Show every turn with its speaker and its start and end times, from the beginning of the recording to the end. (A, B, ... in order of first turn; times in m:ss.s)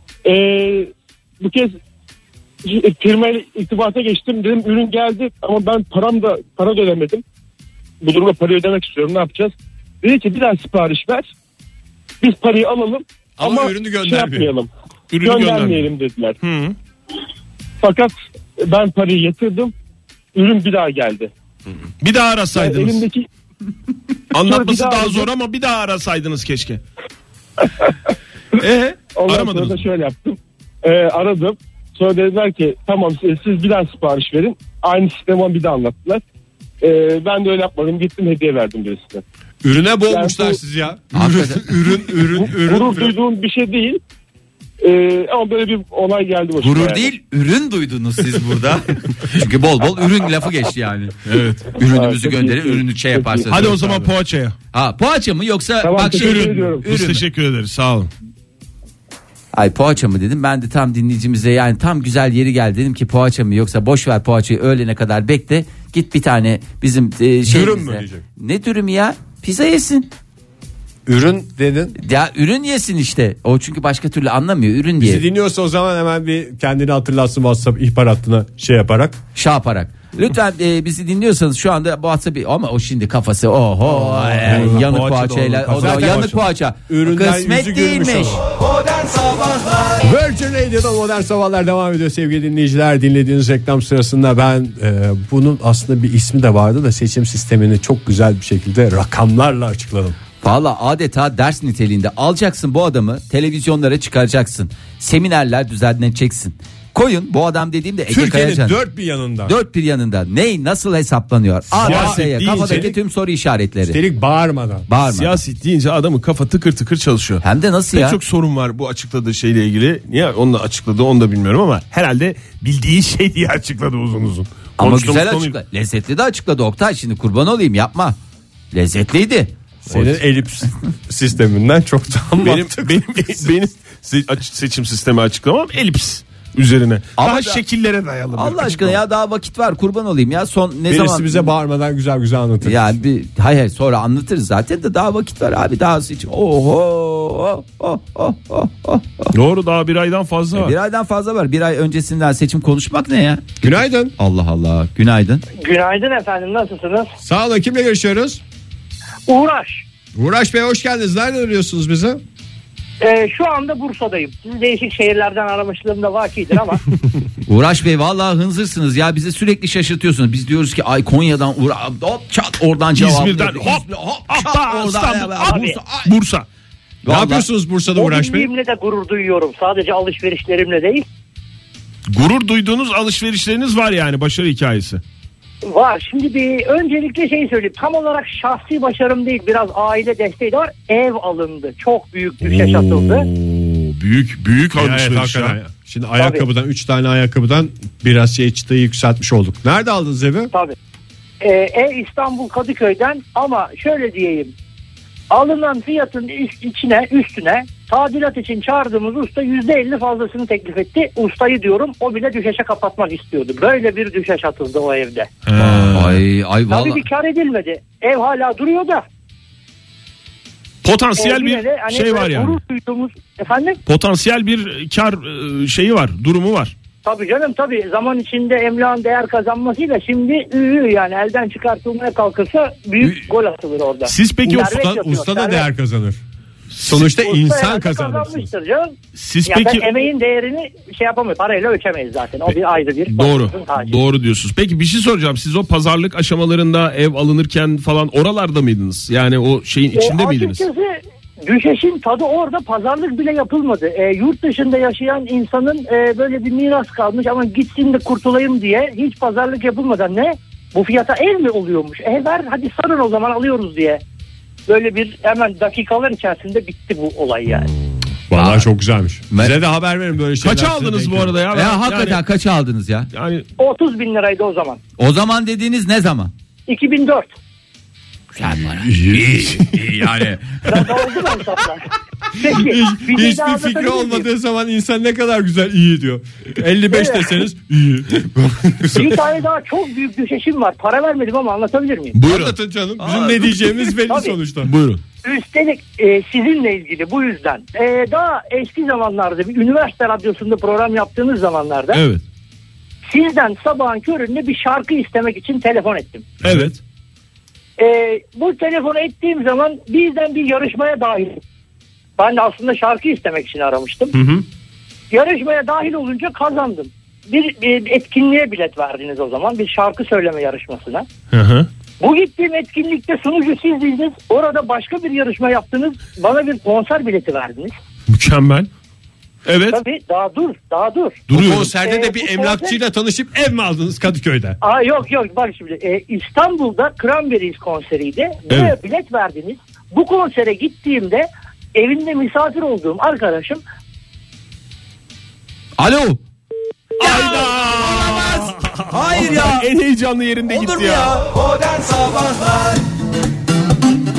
0:00.2-0:01.8 A
0:02.6-0:07.2 A
0:08.0-0:11.3 A
0:12.2-0:14.7 A
0:13.4-0:14.5 B
0:15.1-0:15.9 C
0:15.2-0:16.4 A
0:16.4-0:16.8 C
0:17.8-0:19.7 A
0:20.3-0:21.3 A
0:22.0-0:23.0 C
0:22.6-0:23.3 A
0:24.3-0:26.8 C
0:24.4-0:25.3 A
0:28.6-0:29.9 C
0:29.1-0:36.2 A
0:36.8-0:39.2 A
0:39.6-0:43.2 B
0:40.1-0:40.6 A
0:41.1-0:42.0 D
0:42.4-0:44.0 A
0:44.8-0:47.1 A
0:46.6-0:51.2 D
0:51.3-0:51.7 C
0:51.7-0:54.1 D
0:51.8-0:53.5 A
0:53.5-0:54.6 C
0:54.7-0:57.2 D
0:55.8-0:56.8 A
0:56.1-0:58.1 C
0:59.5-1:10.1 D
1:07.5-1:08.2 B
1:11.1-1:12.0 B
1:12.0-1:15.2 D
1:15.0-1:19.2 B
1:19.4-1:28.4 D
1:23.9-1:24.9 B
1:24.4-1:26.3 C
1:25.7-1:28.4 B
1:30.0-1:40.2 B
1:40.4-1:48.8 D
1:48.1-1:49.5 B
1:49.4-1:54.0 D
1:51.8-1:52.9 B
1:51.8-1:52.9 C
1:53.9-1:54.9 B
1:54.9-1:55.4 D
1:55.1-2:05.6 C
1:57.4-1:58.2 D
2:04.8-2:08.2 D
2:08.7-2:09.5 D
2:09.9-2:13.4 B
2:12.4-2:19.0 C
2:17.2-2:17.6 D
2:18.3-2:21.5 D
2:20.9-2:22.9 B
2:22.6-2:29.3 D
2:29.3-2:30.8 C
2:30.6-2:35.4 D
2:33.6-2:34.1 B
2:35.6-2:37.1 E
2:37.2-2:38.4 B
2:39.3-2:39.9 E
2:40.2-2:42.2 B
2:43.0-2:46.8 E
2:47.5-2:56.1 D
2:53.0-2:56.5 C
2:55.5-2:55.8 E
2:57.0-2:57.5 D
2:57.1-2:58.5 B
2:57.9-3:01.1 E
3:02.1-3:05.0 C
3:05.6-3:13.3 E
3:12.4-3:15.6 C
3:14.8-3:20.5 B
3:16.2-3:16.5 E
3:21.4-3:24.5 E
3:25.3-3:35.3 E
3:35.5-3:36.2 C
3:35.6-3:37.0 D
3:36.7-3:39.0 E
3:40.8-3:42.6 C
3:41.2-3:43.8 E
3:43.9-3:46.7 C
3:47.0-3:55.7 E
3:54.1-3:54.7 C
3:54.4-3:56.2 B
3:56.8-3:58.5 B
3:57.0-3:58.9 E
3:59.2-3:59.9 C
3:59.4-4:04.0 E
4:03.1-4:10.6 C
4:09.9-4:24.0 E
4:24.7-4:27.7 E
4:28.3-4:31.4 B
4:28.4-4:28.7 D
4:29.3-4:29.6 D
4:30.4-4:32.2 C
4:31.5-4:33.1 D
4:33.1-4:33.5 C
4:33.6-4:34.8 E
4:35.0-4:36.3 D
4:36.7-4:37.3 E
4:38.4-4:40.8 D
4:39.1-4:39.9 B
4:40.7-4:44.3 E
4:42.4-4:49.2 B
4:46.9-4:47.4 E
4:49.0-4:52.2 E
4:52.2-4:52.6 C
4:52.3-4:54.7 B
4:53.0-4:53.4 D
4:54.1-4:54.4 E
4:54.6-4:55.0 C
4:55.2-5:02.0 E
5:01.9-5:02.2 C
5:03.1-5:06.3 E
5:06.4-5:06.7 C
5:06.4-5:06.8 B
5:07.8-5:11.4 E
5:12.2-5:14.2 E
5:14.2-5:14.4 B
5:15.1-5:21.1 E
5:21.3-5:21.7 C
5:22.0-5:27.7 E
5:28.1-5:28.7 C
5:29.5-5:29.8 C
5:29.7-5:32.8 E
5:31.3-5:34.6 B
5:31.3-5:31.7 C
5:34.6-5:43.6 E
5:45.8-5:46.2 D
5:47.0-5:49.7 D
5:47.0-5:51.3 C
5:50.5-5:51.2 D